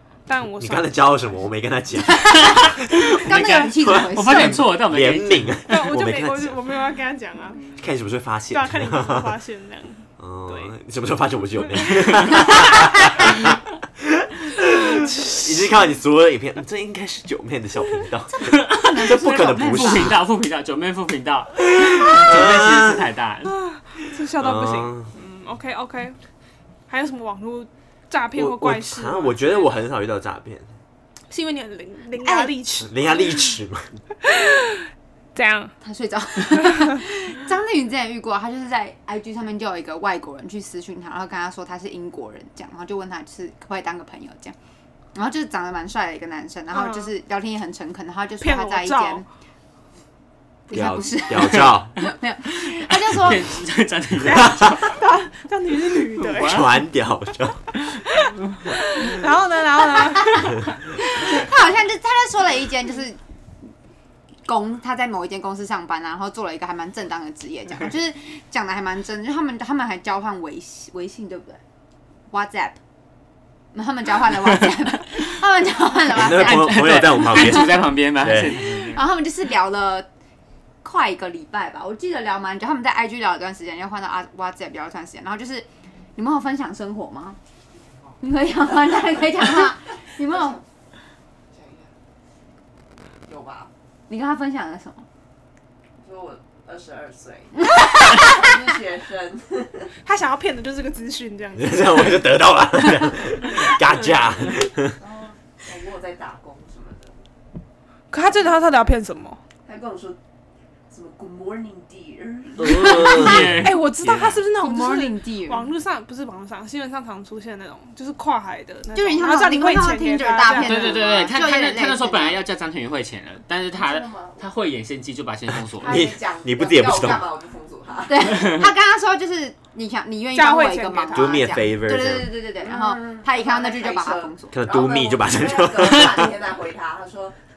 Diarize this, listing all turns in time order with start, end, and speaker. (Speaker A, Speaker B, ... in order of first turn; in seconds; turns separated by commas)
Speaker A: 0.3-1.2, Speaker B: 0.6-6.6, Speaker C: 2.2-4.7, Speaker D: 2.3-5.5, Speaker A: 5.7-7.6, Speaker B: 7.8-9.3, Speaker A: 8.5-10.7, Speaker B: 10.2-20.1, Speaker A: 11.8-12.6, Speaker A: 14.7-15.5, Speaker D: 18.4-23.5, Speaker C: 18.8-20.1, Speaker B: 21.8-23.0, Speaker A: 23.5-26.2, Speaker B: 24.4-25.1, Speaker A: 26.9-29.7, Speaker B: 28.4-30.6, Speaker A: 31.3-33.4, Speaker C: 32.2-32.5, Speaker B: 32.8-33.9, Speaker A: 34.2-35.7, Speaker C: 35.8-44.5, Speaker A: 36.5-36.8, Speaker C: 45.1-49.2, Speaker A: 46.7-47.1, Speaker A: 48.4-49.2, Speaker C: 50.7-53.5, Speaker B: 50.7-51.9, Speaker D: 51.4-51.7, Speaker D: 52.4-54.9, Speaker A: 54.3-56.7, Speaker B: 54.3-54.9, Speaker D: 56.2-56.7, Speaker B: 56.4-57.7, Speaker A: 58.2-60.7, Speaker C: 60.0-63.2, Speaker C: 64.5-71.6, Speaker C: 72.3-72.8, Speaker C: 73.7-77.7, Speaker B: 76.1-78.7, Speaker D: 76.2-79.0, Speaker C: 78.6-80.1, Speaker C: 80.8-87.4, Speaker C: 88.2-90.6, Speaker E: 90.2-90.6, Speaker E: 91.5-91.9, Speaker E: 93.2-93.7, Speaker C: 94.1-95.0, Speaker E: 96.0-99.9, Speaker C: 97.7-98.5, Speaker A: 100.0-102.0, Speaker B: 101.5-105.0, Speaker E: 105.0-107.2, Speaker A: 108.1-109.4, Speaker E: 109.6-110.2, Speaker E: 110.9-113.3, Speaker B: 112.6-113.4, Speaker D: 112.7-114.4, Speaker A: 113.5-121.0, Speaker C: 114.6-115.7, Speaker C: 118.9-122.4, Speaker D: 120.6-126.0, Speaker E: 123.7-124.5, Speaker B: 125.8-127.2, Speaker E: 125.8-128.6, Speaker C: 128.1-134.6, Speaker A: 130.3-131.4, Speaker B: 131.1-132.4, Speaker E: 132.6-137.4, Speaker B: 134.5-136.3